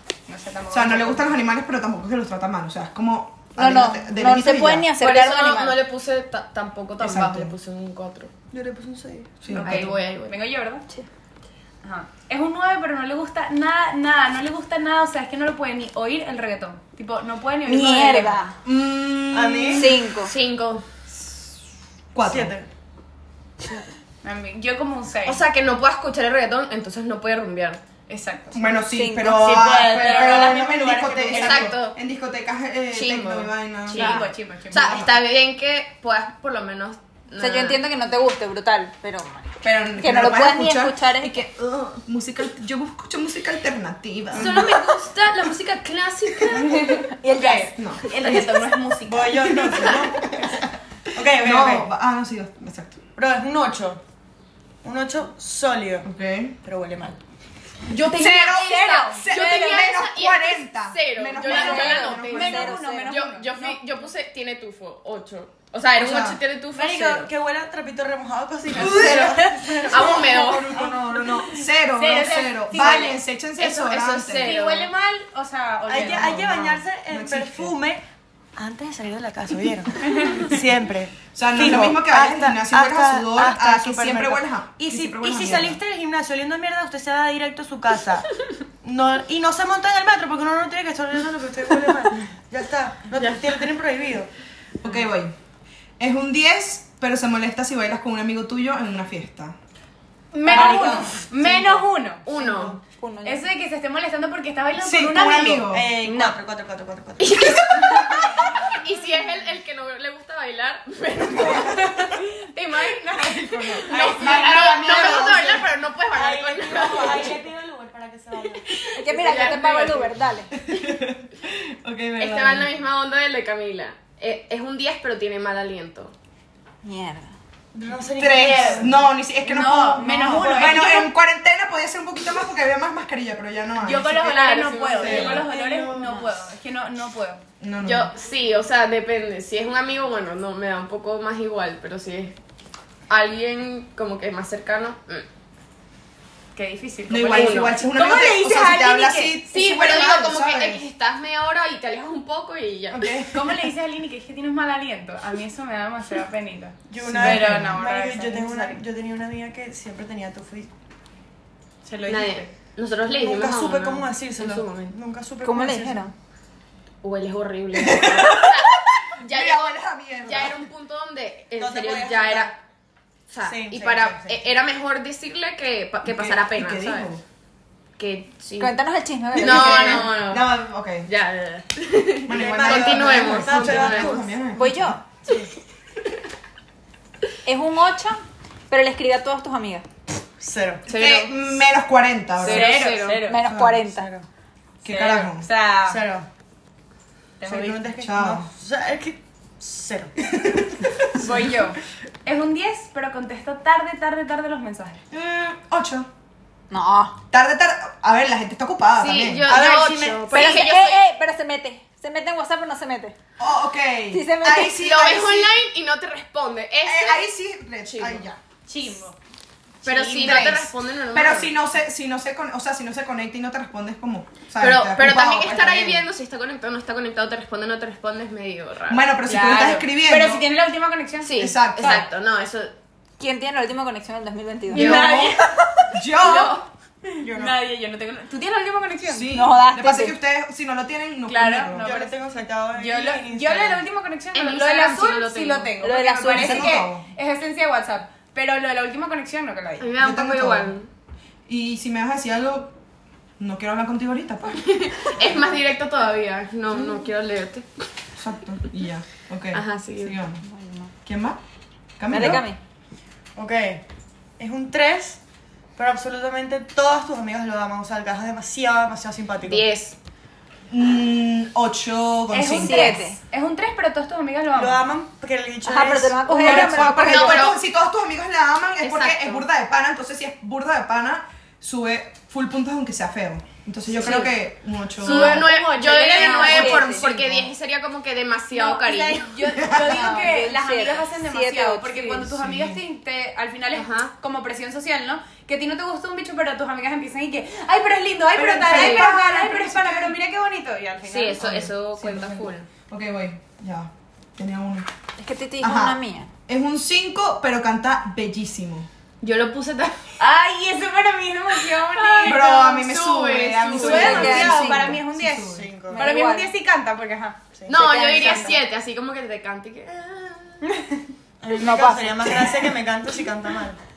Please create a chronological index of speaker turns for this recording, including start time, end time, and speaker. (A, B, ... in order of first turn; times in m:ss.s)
0:00.3-0:01.3 A
0:00.7-0:04.9 B
0:03.6-0:05.8 C
0:05.0-0:08.3 D
0:07.0-0:07.5 B
0:08.5-0:09.4 E
0:09.4-0:10.0 B
0:09.5-0:10.8 A
0:09.6-0:10.4 D
0:11.8-0:18.4 A
0:17.6-0:18.6 C
0:18.6-0:20.1 B
0:19.3-0:19.9 E
0:19.8-0:20.3 C
0:20.2-0:20.8 D
0:22.1-0:22.5 B
0:22.2-0:22.7 E
0:24.2-0:25.4 A
0:25.2-0:27.8 D
0:28.1-0:28.6 A
0:28.5-0:34.2 B
0:28.9-0:29.6 C
0:29.3-0:31.8 E
0:29.7-0:31.2 A
0:31.3-0:32.0 D
0:32.9-0:37.8 D
0:33.9-0:35.1 A
0:34.8-0:35.1 B
0:37.4-0:41.4 C
0:39.6-0:44.8 B
0:44.3-0:47.0 D
0:46.5-0:49.9 A
0:47.2-0:47.7 C
0:49.1-0:51.9 E
0:49.8-0:50.0 D
0:51.3-0:53.0 B
0:53.2-0:54.0 E
0:54.8-0:56.1 E
0:56.0-0:56.6 B
0:56.6-0:57.2 E
0:57.9-0:59.9 A
0:57.9-1:07.3 D
0:58.1-1:02.6 B
1:01.5-1:03.8 A
1:01.5-1:03.2 C
1:06.0-1:06.4 B
1:06.7-1:11.3 E
1:08.7-1:14.5 B
1:08.8-1:10.8 D
1:11.9-1:13.2 A
1:13.6-1:14.9 D
1:14.4-1:16.7 A
1:15.9-1:18.0 E
1:16.0-1:17.8 B
1:18.6-1:34.3 E
1:21.3-1:25.8 B
1:34.8-1:35.4 B
1:36.0-1:39.5 B
1:40.3-1:42.2 A
1:40.5-1:41.1 C
1:40.5-1:41.1 B
1:40.6-1:41.0 E
1:42.2-1:42.8 D
1:42.3-1:42.8 E
1:42.8-1:43.4 C
1:43.2-1:46.3 A
1:44.8-1:45.9 B
1:45.7-1:47.8 E
1:47.2-1:53.1 D
1:51.5-1:55.2 A
1:53.1-1:55.4 B
1:53.7-1:57.4 D
1:53.9-1:58.7 E
1:58.7-2:00.1 D
1:59.0-2:00.5 C
2:00.6-2:02.7 B
2:02.2-2:06.1 D
2:06.8-2:07.3 C
2:07.7-2:09.0 E
2:08.2-2:14.3 B
2:08.4-2:08.8 D
2:09.4-2:11.1 A
2:10.3-2:10.9 E
2:13.8-2:17.4 A
2:14.2-2:15.4 D
2:15.0-2:15.4 B
2:15.0-2:16.1 E
2:17.6-2:18.1 B
2:17.8-2:22.4 D
2:23.1-2:25.2 D
2:26.5-2:29.4 A
2:27.1-2:30.8 B
2:27.2-2:27.8 D
2:29.5-2:33.2 D
2:32.9-2:33.4 E
2:33.3-2:38.8 A
2:36.9-2:40.7 E
2:37.0-2:37.8 B
2:41.8-2:42.5 A
2:42.0-2:45.0 D
2:43.1-2:46.1 E
2:45.4-2:46.1 C
2:47.0-2:52.5 D
2:47.7-2:50.7 B
2:51.6-2:52.5 E
2:53.3-2:57.1 D
2:53.4-2:54.4 E
2:56.1-2:57.2 B
2:58.0-2:58.8 D
2:58.6-3:00.1 C
2:59.3-3:04.2 D
2:59.4-3:01.1 B
3:02.2-3:05.0 B
3:02.3-3:04.4 E
3:04.5-3:05.0 C
3:05.2-3:05.5 E
3:07.4-3:09.8 C
3:10.4-3:10.8 E
3:10.9-3:11.4 D
3:10.9-3:12.8 B
3:12.4-3:13.2 D
3:12.4-3:13.4 A
3:13.2-3:14.1 C
3:13.4-3:13.8 B
3:13.9-3:14.2 E
3:14.8-3:15.5 B
3:14.8-3:16.1 A
3:15.8-3:16.2 E
3:17.4-3:17.9 A
3:17.4-3:20.1 E
3:18.0-3:18.5 B
3:20.3-3:21.3 B
3:21.2-3:25.0 A
3:25.1-3:26.1 B
3:26.7-3:27.2 C
3:27.3-3:29.6 B
3:29.0-3:31.0 D
3:29.5-3:30.6 E
3:30.3-3:33.1 C
3:33.4-3:35.5 B
3:34.1-3:34.8 C
3:34.7-3:37.3 D
3:36.8-3:38.4 B
3:37.9-3:38.2 D
3:38.7-3:39.2 A
3:39.8-3:40.7 A
3:39.8-3:41.5 D
3:40.2-3:46.1 B
3:44.6-3:49.1 D
3:48.9-3:50.4 B
3:49.2-3:51.4 A
3:51.2-3:52.7 D
3:51.4-3:52.1 B
3:53.2-3:55.1 C
3:54.7-3:55.5 A
3:54.7-3:55.3 D
3:54.7-3:55.4 B
3:55.9-3:56.6 B
3:56.2-3:56.7 D
3:57.1-3:59.4 A
3:59.0-4:02.0 B
3:59.3-4:00.1 C
4:01.2-4:02.1 A
4:01.8-4:03.8 E
4:02.8-4:09.9 A
4:04.3-4:05.7 D
4:05.8-4:06.8 C
4:06.3-4:07.0 B
4:09.8-4:10.9 D
4:10.0-4:10.8 B
4:11.5-4:12.7 B
4:13.4-4:14.7 B
4:14.6-4:17.7 D
4:18.2-4:20.4 B
4:19.5-4:20.2 D
4:20.4-4:20.9 C
4:21.0-4:21.4 B
4:22.0-4:22.4 B
4:22.1-4:22.6 C
4:23.4-4:23.8 E
4:24.4-4:25.2 E
4:25.8-4:29.6 E
4:29.4-4:30.0 D
4:30.7-4:33.0 B
4:32.3-4:34.9 A
4:32.5-4:33.2 C
4:34.5-4:37.1 E
4:35.6-4:37.5 C
4:36.3-4:45.5 B
4:37.0-4:37.6 D
4:38.8-4:39.5 D
4:44.0-4:44.3 A
4:45.0-4:49.3 D
4:45.0-4:47.0 A
4:46.2-4:47.1 C
4:46.4-4:47.5 B
4:48.5-5:01.4 A
4:49.5-4:50.2 B
4:49.6-4:52.2 C
4:52.3-4:52.8 B
4:53.7-4:54.1 D
4:58.4-5:00.1 B
4:58.7-4:59.1 D
5:01.1-5:02.7 D
5:01.4-5:04.9 B
5:05.2-5:06.3 C
5:05.6-5:08.9 B
5:09.2-5:10.1 D
5:10.2-5:12.5 A
5:11.9-5:14.4 D
5:12.2-5:15.7 B
5:13.8-5:17.4 A
5:13.8-5:15.0 C
5:15.5-5:16.0 E
5:15.9-5:16.5 C
5:17.7-5:20.6 D
5:17.7-5:18.6 C
5:18.0-5:18.5 A
5:21.4-5:23.8 E
5:21.6-5:22.3 C